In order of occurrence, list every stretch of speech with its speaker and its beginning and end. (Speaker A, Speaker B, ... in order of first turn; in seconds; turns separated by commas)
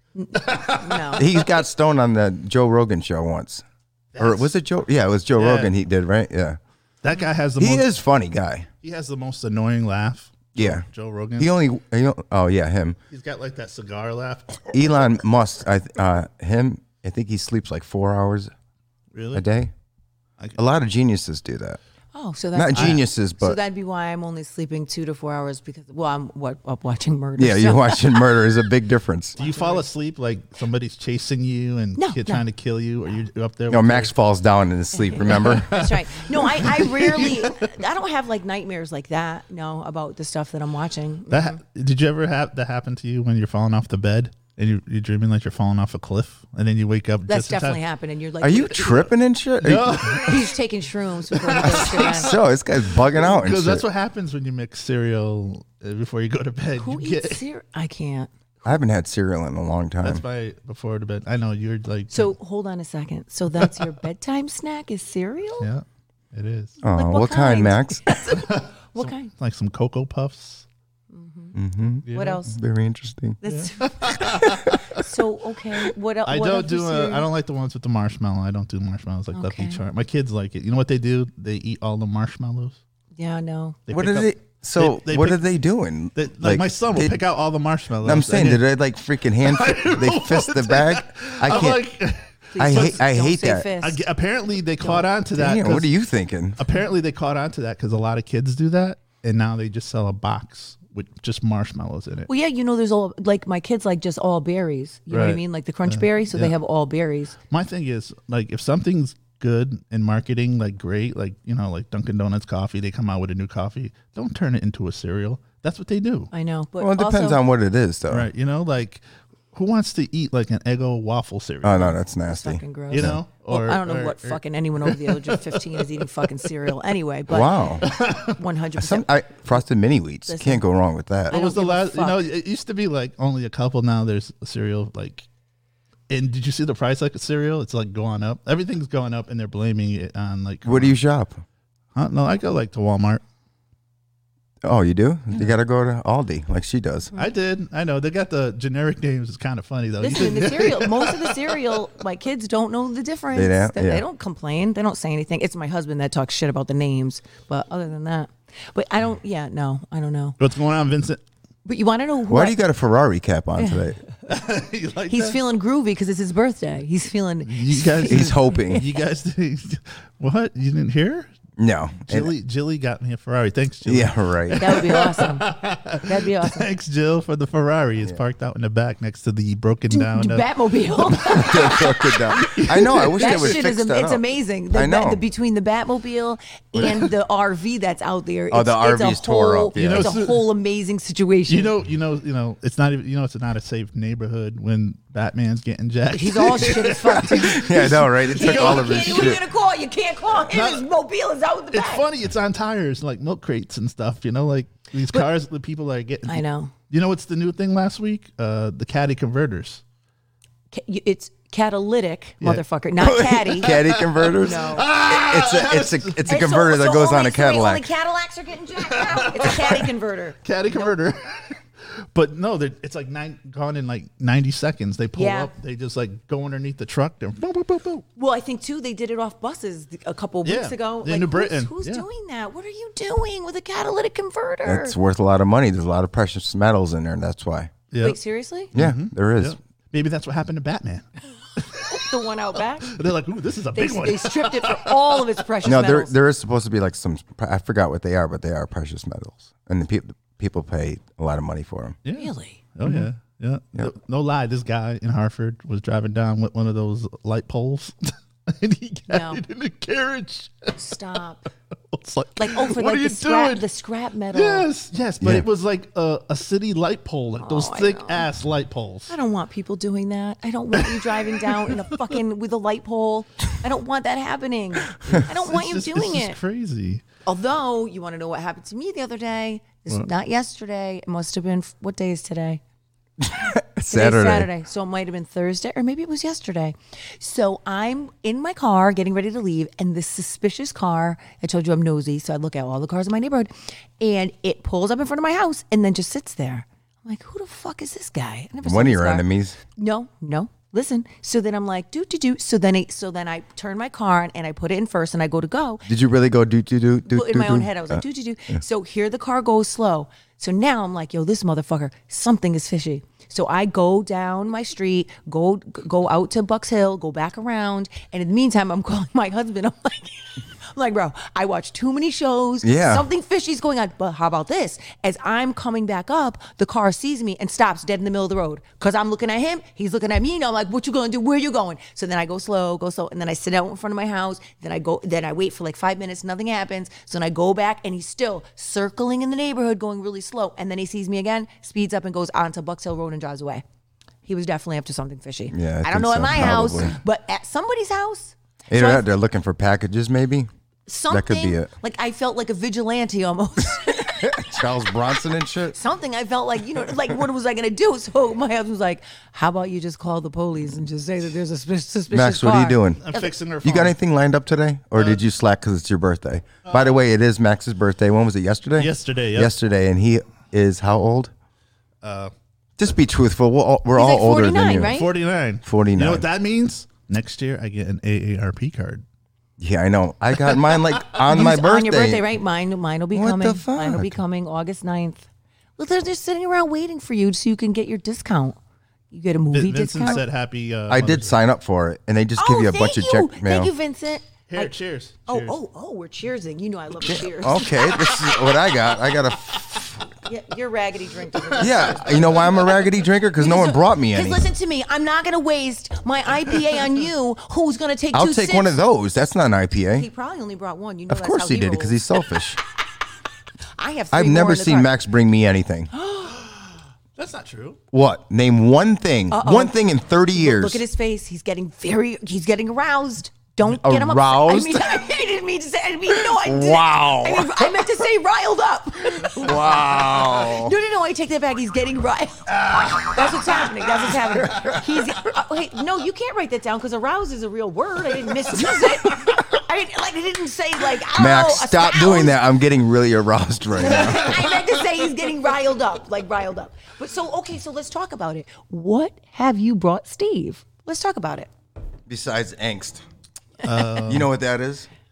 Speaker A: 0.1-1.3, Speaker B: 0.3-1.2, Speaker C: 1.1-3.6, Speaker B: 4.1-4.5, Speaker C: 4.2-6.6, Speaker B: 5.3-5.7, Speaker B: 7.0-7.9, Speaker C: 7.6-8.7, Speaker B: 8.8-11.5, Speaker C: 10.6-10.8, Speaker C: 11.4-13.0, Speaker B: 13.1-14.7, Speaker C: 14.7-18.5, Speaker B: 19.1-19.4, Speaker C: 19.3-19.7, Speaker C: 20.6-21.8, Speaker A: 22.1-28.2, Speaker C: 22.5-23.6, Speaker B: 22.7-23.0, Speaker C: 27.4-29.4, Speaker B: 29.4-34.1, Speaker A: 29.4-29.8, Speaker A: 32.0-32.4, Speaker C: 33.7-35.8, Speaker B: 35.2-37.7, Speaker A: 35.7-41.6, Speaker B: 41.3-47.8, Speaker A: 47.3-49.1, Speaker C: 48.4-50.3, Speaker B: 49.6-50.5, Speaker A: 50.2-52.4, Speaker B: 51.3-52.2, Speaker C: 51.8-53.8, Speaker B: 53.0-57.4, Speaker A: 56.8-58.3, Speaker C: 58.6-60.2, Speaker B: 60.0-62.3, Speaker A: 62.1-65.7, Speaker B: 63.6-63.9, Speaker B: 65.6-66.8, Speaker C: 66.8-68.2, Speaker A: 66.8-69.3, Speaker B: 68.3-70.7, Speaker A: 71.1-72.5, Speaker C: 71.5-73.4, Speaker B: 72.0-72.4, Speaker A: 73.4-74.2, Speaker B: 73.4-75.0, Speaker C: 74.2-74.7, Speaker A: 75.0-77.3, Speaker B: 76.2-82.8, Speaker A: 79.3-79.8, Speaker A: 83.2-83.8, Speaker B: 83.9-85.4, Speaker C: 83.9-87.2, Speaker B: 86.1-88.6, Speaker C: 88.0-91.8, Speaker B: 89.4-93.0, Speaker A: 92.5-94.0, Speaker C: 92.6-93.7, Speaker B: 93.8-95.9, Speaker A: 94.8-95.0, Speaker C: 95.3-96.6, Speaker B: 96.6-102.3, Speaker A: 102.3-107.3, Speaker B: 105.1-106.5, Speaker B: 107.5-116.3, Speaker A: 116.3-117.4, Speaker C: 116.8-118.3, Speaker B: 118.1-122.0, Speaker C: 121.6-123.2, Speaker A: 122.3-129.1, Speaker B: 122.9-126.5, Speaker C: 127.3-127.9, Speaker B: 127.8-128.4, Speaker C: 128.8-131.3, Speaker A: 130.3-130.6, Speaker A: 131.3-132.2, Speaker B: 131.3-135.2, Speaker B: 136.1-141.0, Speaker C: 140.6-141.4, Speaker B: 141.9-143.2, Speaker C: 144.6-147.1, Speaker B: 147.2-151.6, Speaker A: 150.0-160.4, Speaker C: 153.3-154.0, Speaker B: 160.4-161.2, Speaker A: 161.6-162.6, Speaker C: 162.3-164.0, Speaker A: 163.6-163.8, Speaker B: 164.3-165.4, Speaker A: 165.1-168.2, Speaker B: 167.4-171.3, Speaker C: 168.0-168.9, Speaker C: 171.6-172.3, Speaker B: 172.0-181.5, Speaker C: 173.8-174.7, Speaker A: 174.6-175.5, Speaker A: 176.0-176.7, Speaker A: 179.9-182.6, Speaker C: 181.2-185.2, Speaker B: 182.4-183.6, Speaker A: 183.2-191.7, Speaker C: 188.5-190.2, Speaker B: 189.8-190.5, Speaker B: 191.5-199.4, Speaker A: 196.1-202.1, Speaker C: 197.1-199.4, Speaker B: 200.5-200.9, Speaker B: 201.7-209.8, Speaker A: 206.3-206.7, Speaker A: 210.7-213.7, Speaker C: 213.0-217.9, Speaker B: 213.6-216.4, Speaker A: 214.4-214.9, Speaker A: 216.2-220.9, Speaker B: 218.8-219.9, Speaker B: 220.4-228.0, Speaker A: 225.2-225.5, Speaker A: 228.2-235.0, Speaker B: 230.4-232.1, Speaker C: 234.6-237.7, Speaker B: 237.9-238.2, Speaker A: 238.0-238.7, Speaker B: 238.7-242.2, Speaker C: 238.7-239.6, Speaker A: 241.8-242.9, Speaker B: 242.8-245.3, Speaker A: 243.7-246.1, Speaker C: 245.6-252.0, Speaker B: 252.0-261.2, Speaker A: 252.1-252.6, Speaker A: 259.1-259.4, Speaker A: 260.7-261.5, Speaker B: 261.9-263.6, Speaker A: 262.4-264.7, Speaker B: 264.3-269.1, Speaker A: 267.4-268.3, Speaker A: 269.1-276.4, Speaker B: 270.8-272.1, Speaker B: 274.9-277.0, Speaker A: 277.2-282.6, Speaker C: 283.2-284.5, Speaker A: 283.9-305.8, Speaker C: 298.6-299.6, Speaker C: 305.9-308.0, Speaker A: 307.1-343.6, Speaker C: 322.6-323.0, Speaker A: 344.2-349.0, Speaker C: 345.5-347.0, Speaker C: 348.7-350.5, Speaker A: 350.9-354.6, Speaker C: 351.1-351.7, Speaker C: 354.1-355.8, Speaker A: 355.7-363.3, Speaker C: 362.1-363.0, Speaker B: 363.0-363.9, Speaker C: 363.6-371.3, Speaker B: 364.9-365.2, Speaker B: 366.6-366.9, Speaker B: 368.8-369.5, Speaker B: 372.0-372.3, Speaker C: 372.8-375.0, Speaker A: 373.9-375.1, Speaker B: 374.9-379.0, Speaker C: 375.6-376.2, Speaker C: 379.6-382.3, Speaker A: 381.3-388.6, Speaker C: 383.1-384.2, Speaker A: 389.1-390.2, Speaker B: 389.5-391.4, Speaker C: 390.9-393.7, Speaker A: 392.4-394.7, Speaker B: 394.5-395.6, Speaker A: 395.3-398.1, Speaker C: 397.0-400.1, Speaker A: 400.2-402.6, Speaker C: 401.6-404.5, Speaker B: 401.6-402.6, Speaker A: 403.4-408.8, Speaker C: 408.1-410.1, Speaker A: 409.9-412.0, Speaker C: 411.1-412.6, Speaker A: 413.8-414.9, Speaker C: 414.1-415.9, Speaker A: 415.9-416.3, Speaker B: 416.3-417.8, Speaker C: 417.9-420.8, Speaker A: 419.3-419.8, Speaker A: 420.3-442.4, Speaker C: 423.7-425.0, Speaker C: 426.1-427.7, Speaker C: 429.3-430.7, Speaker B: 432.7-433.1, Speaker C: 441.1-444.4, Speaker A: 443.7-451.5, Speaker C: 452.1-453.0, Speaker B: 453.6-454.3, Speaker C: 454.0-454.9